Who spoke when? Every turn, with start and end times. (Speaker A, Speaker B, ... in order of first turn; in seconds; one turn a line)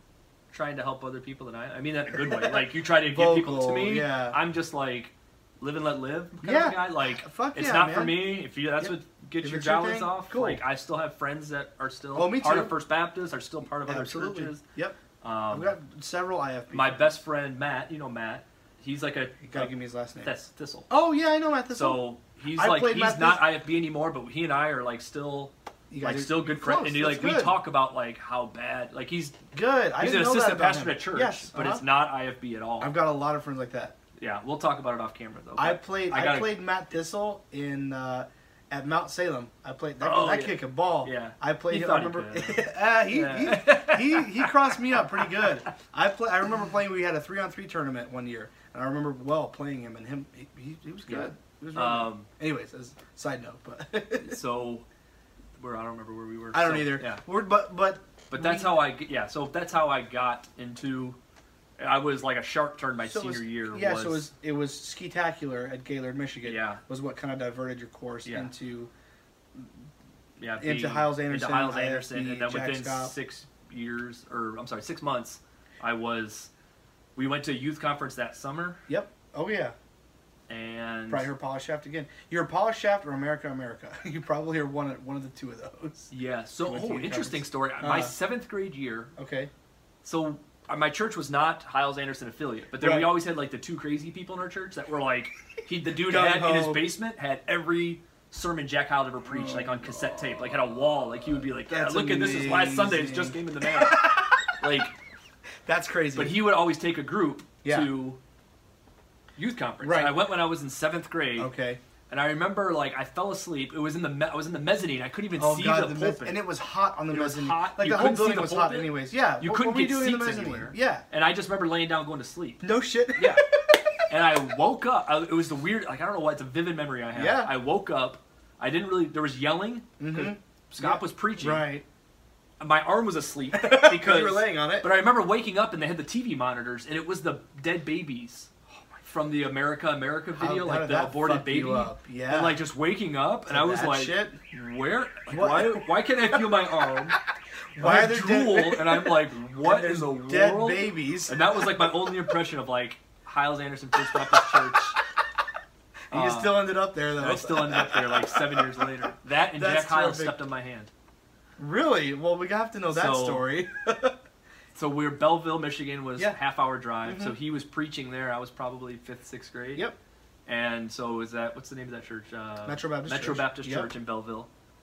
Speaker A: 0.5-14.6
Speaker B: 2.1-4.4
Speaker B: 6.4-10.6
Speaker B: 12.2-12.8
Speaker B: 13.8-15.0
Speaker A: 15.2-15.8
Speaker B: 15.5-17.2
Speaker A: 16.7-20.9
Speaker B: 19.4-20.3
Speaker B: 20.9-23.4
Speaker A: 21.7-29.4
Speaker B: 25.9-27.6
Speaker B: 29.5-31.8
Speaker A: 30.0-32.9
Speaker B: 32.8-34.0
Speaker A: 34.2-36.6
Speaker B: 35.6-54.4
Speaker A: 40.0-45.5
Speaker A: 51.1-52.3
Speaker A: 54.2-54.9
Speaker A: 55.6-57.2
Speaker B: 56.5-58.8
Speaker A: 58.3-61.2
Speaker A: 61.8-64.3
Speaker B: 63.0-68.9
Speaker A: 66.4-66.8
Speaker A: 68.2-68.5
Speaker A: 70.4-76.5
Speaker B: 70.6-73.1
Speaker A: 77.2-78.8
Speaker B: 78.9-79.8
Speaker A: 80.5-81.3
Speaker B: 81.1-86.1
Speaker A: 86.1-89.1
Speaker B: 86.6-88.1
Speaker B: 89.2-89.5
Speaker A: 90.0-105.0
Speaker B: 92.8-93.1
Speaker B: 95.9-96.9
Speaker B: 99.3-100.6
Speaker B: 101.6-104.6
Speaker B: 105.7-106.4
Speaker A: 106.2-108.2
Speaker B: 107.6-107.9
Speaker A: 109.4-111.5
Speaker B: 109.8-110.2
Speaker B: 111.4-111.8
Speaker A: 112.1-116.4
Speaker B: 115.4-121.0
Speaker A: 117.1-122.6
Speaker B: 122.6-123.8
Speaker A: 123.2-123.5
Speaker A: 124.1-131.7
Speaker B: 127.2-127.5
Speaker B: 130.0-131.8
Speaker A: 132.6-138.5
Speaker B: 133.5-134.9
Speaker A: 139.0-147.2
Speaker B: 140.3-142.6
Speaker B: 143.5-144.4
Speaker B: 145.3-146.4
Speaker B: 147.8-152.1
Speaker A: 147.8-155.0
Speaker A: 156.1-156.6
Speaker B: 156.1-160.4
Speaker A: 157.2-160.9
Speaker B: 161.6-164.2
Speaker A: 162.9-163.5
Speaker A: 164.8-169.9
Speaker B: 167.1-167.4
Speaker A: 170.5-174.5
Speaker B: 172.7-173.9